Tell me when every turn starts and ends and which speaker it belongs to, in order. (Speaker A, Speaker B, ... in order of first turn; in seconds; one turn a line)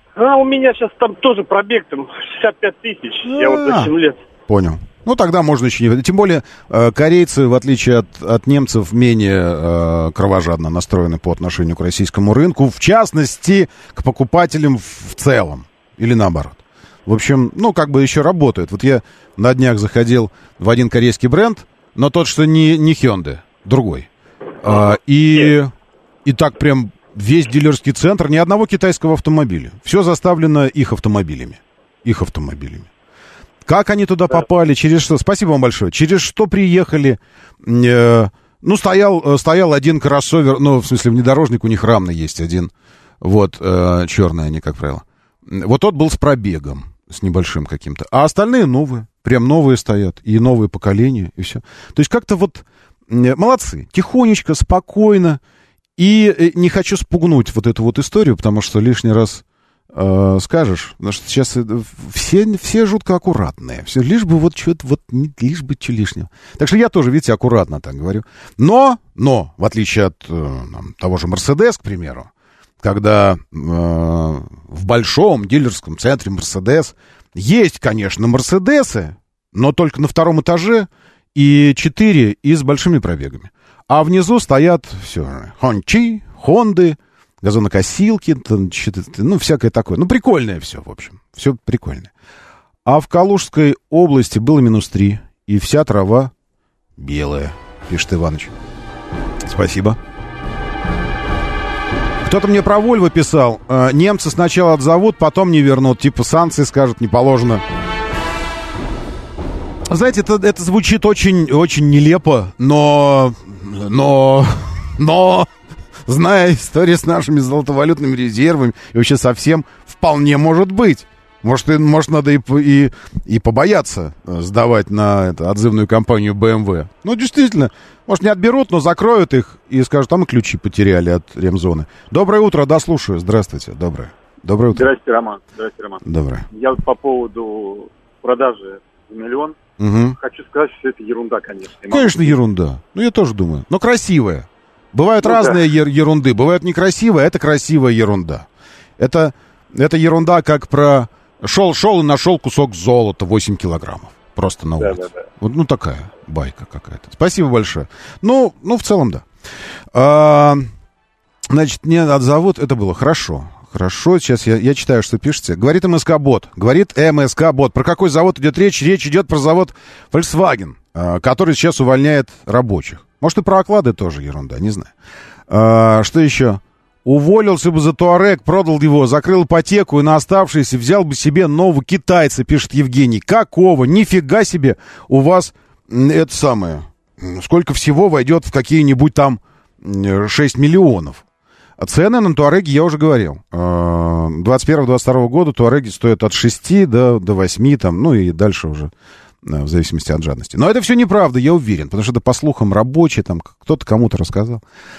Speaker A: 0.2-4.2
Speaker B: 3.2-3.9
Speaker B: 4.5-24.1
Speaker B: 24.6-25.7
Speaker B: 26.2-32.9
Speaker B: 33.6-55.4
Speaker B: 56.0-72.3
Speaker B: 72.8-92.1
Speaker B: 92.8-96.3
Speaker B: 97.0-98.5
Speaker B: 99.5-100.0
Speaker B: 102.2-107.6
Speaker B: 109.9-115.5
Speaker B: 116.0-134.9
Speaker C: 134.7-139.6
Speaker B: 136.0-136.4
Speaker B: 139.8-140.2
Speaker C: 140.2-142.4
Speaker B: 141.9-148.5
Speaker C: 145.2-145.6
Speaker B: 149.0-159.2
Speaker C: 154.8-155.1
Speaker B: 159.9-160.7
Speaker B: 161.5-174.9
Speaker B: 175.5-191.2
Speaker B: 191.8-198.9
Speaker B: 199.4-204.6